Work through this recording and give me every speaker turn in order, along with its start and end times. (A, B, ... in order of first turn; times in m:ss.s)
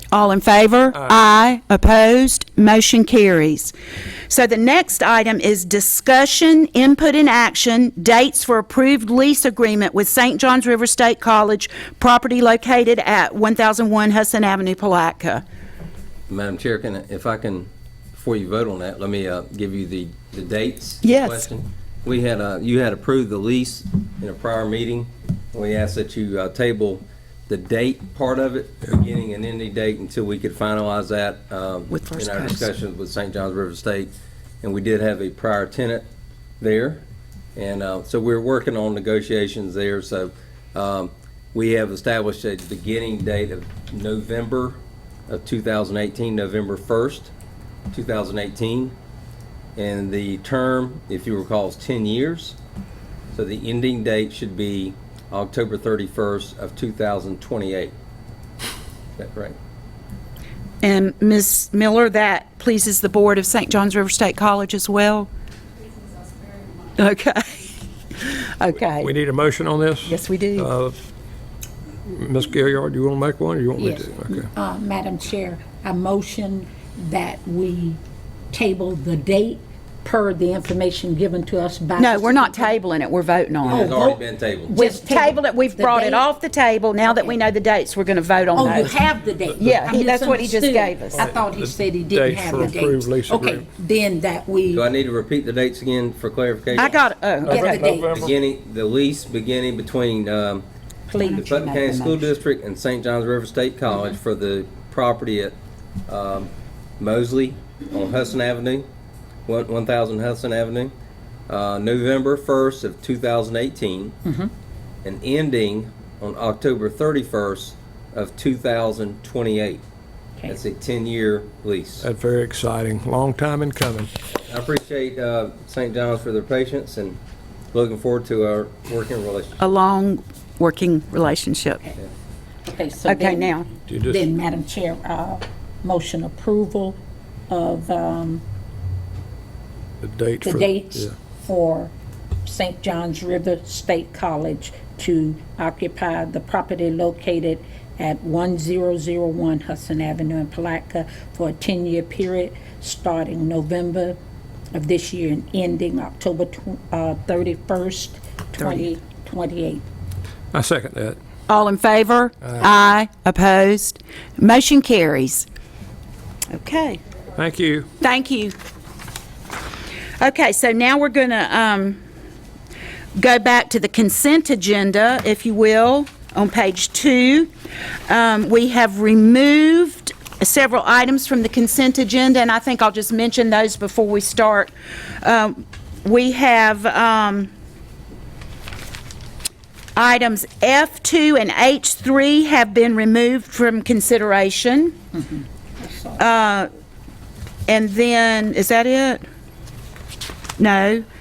0:00.1-0:03.7 A
0:04.3-0:15.4 A
0:16.3-0:34.1 B
0:21.0-0:21.5 A
0:31.9-0:32.7 A
0:34.6-0:36.1 B
0:36.6-0:37.0 B
0:37.6-0:47.3 B
0:47.9-0:48.9 B
0:49.8-0:52.6 B
0:53.3-0:57.9 B
0:59.2-0:59.6 B
1:00.8-1:05.3 A
1:07.0-1:09.1 A
1:09.0-1:11.0 C
1:10.0-1:10.7 A
1:12.0-1:14.5 C
1:13.8-1:18.0 D
1:18.5-1:22.8 D
1:22.0-1:24.0 A
1:23.6-1:24.8 B
1:23.7-1:24.2 D
1:24.7-1:29.0 A
1:24.8-1:26.2 D
1:27.1-1:27.4 D
1:28.5-1:34.8 D
1:29.6-1:31.2 A
1:31.1-1:33.6 C
1:34.7-1:37.0 B
1:36.7-1:37.8 A
1:37.4-1:38.4 C
1:37.5-1:38.1 D
1:38.0-1:40.6 B
1:41.1-1:42.0 D
1:41.2-1:42.2 A
1:41.2-1:48.9 B
1:49.5-1:50.9 B
1:51.5-1:54.2 B
1:54.2-1:54.5 D
1:55.0-1:59.8 B
2:00.4-2:02.0 B
2:02.0-2:04.1 C
2:04.3-2:07.2 B
2:07.7-2:09.6 B
2:09.6-2:11.9 A
2:12.6-2:13.5 D
2:13.0-2:13.7 A
2:13.8-2:14.2 C
2:14.0-2:18.4 D
2:20.0-2:21.1 C
2:20.4-2:34.2 D
2:34.7-2:39.8 D
2:38.6-2:38.8 A
2:40.5-2:41.2 C
2:41.5-2:45.4 A
2:46.5-2:47.0 A
2:47.4-2:47.9 C
2:48.0-2:48.5 A
2:50.2-2:52.0 A
2:53.2-2:57.5 A
2:58.1-3:07.5 A
3:10.0-3:15.0 A
3:15.2-3:16.2 D
3:16.2-3:16.7 A
3:17.7-3:19.2 A
3:20.6-3:21.0 A